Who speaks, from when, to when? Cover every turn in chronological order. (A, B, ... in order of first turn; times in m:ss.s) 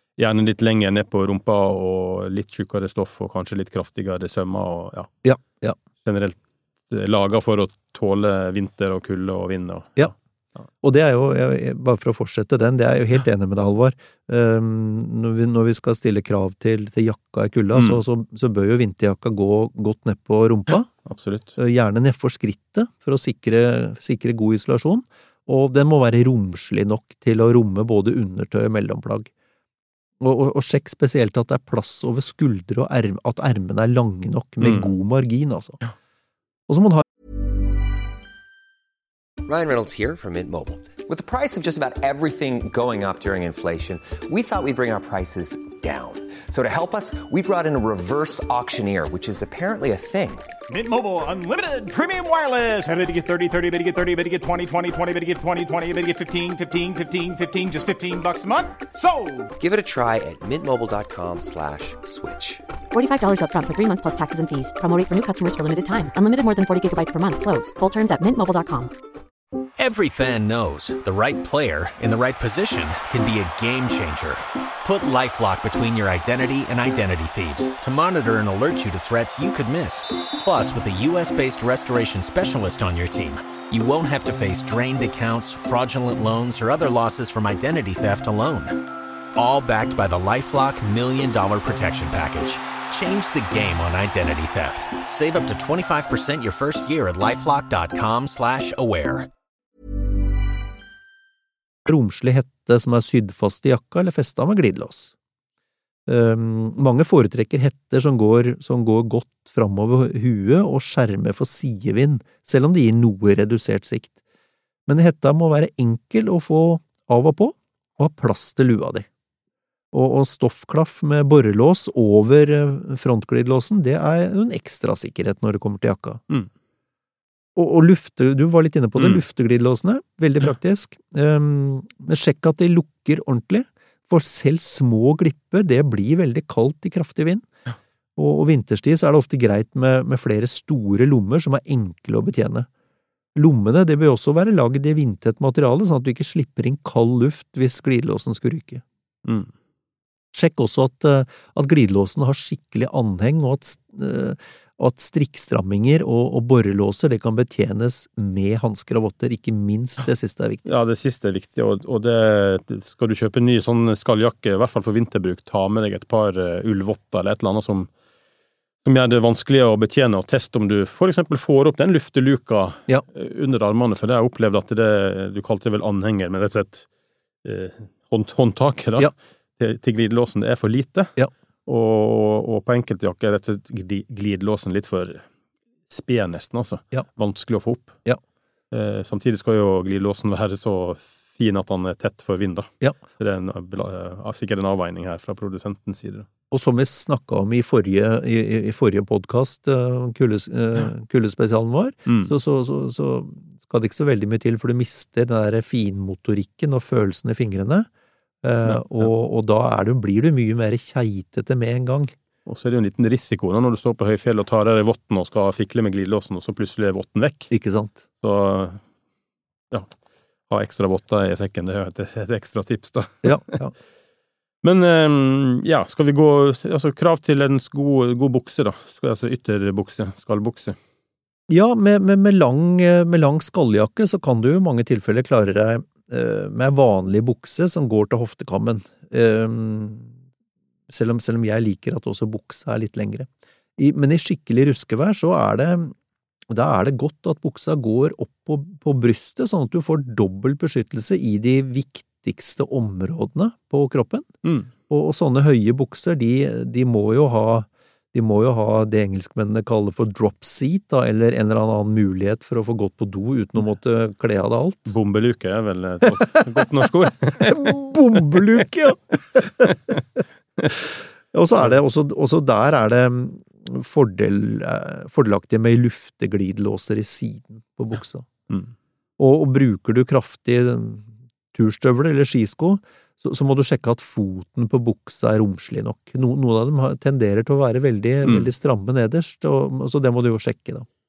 0:00.2-0:05.1 A
0:05.2-0:05.8 B
0:06.0-0:10.1 A
0:10.8-0:20.9 B
0:17.7-0:18.0 A
0:21.0-0:21.5 A
0:21.6-0:29.3 B
0:30.2-0:35.8 B
0:34.6-0:34.9 A
0:36.7-0:37.0 B
0:39.4-0:50.5 C
0:50.7-0:59.5 D
0:59.6-1:02.6 C
1:02.9-1:08.9 E
1:09.8-1:39.3 F
1:41.8-1:45.1 B
1:46.1-1:54.1 B
1:54.9-1:59.1 B
1:59.9-2:06.2 B
2:07.6-2:17.5 B
2:09.0-2:09.2 A
2:18.2-2:22.7 B
2:23.3-2:28.8 B
2:29.2-2:29.5 A
2:30.3-2:40.6 B
2:40.6-2:47.9 A
2:48.8-2:56.9 A
2:57.4-3:05.3 A
3:05.9-3:08.0 A
3:08.7-3:16.3 A
3:16.5-3:27.9 B
3:22.1-3:22.3 A
3:28.4-3:32.1 B
3:28.6-3:29.1 A
3:32.4-3:37.5 A
3:37.5-3:38.0 B
3:38.2-3:38.8 A
3:40.5-3:43.5 A
3:43.2-3:43.7 B
3:44.6-3:50.8 A
3:51.5-4:00.2 B
4:00.9-4:05.9 B
4:06.5-4:14.3 B
4:14.4-4:14.7 A
4:14.9-4:24.9 B
4:24.9-4:27.7 A
4:27.4-4:29.9 B
4:29.6-4:29.9 A
4:31.3-4:38.3 B
4:39.2-4:50.9 B
4:48.2-4:48.5 A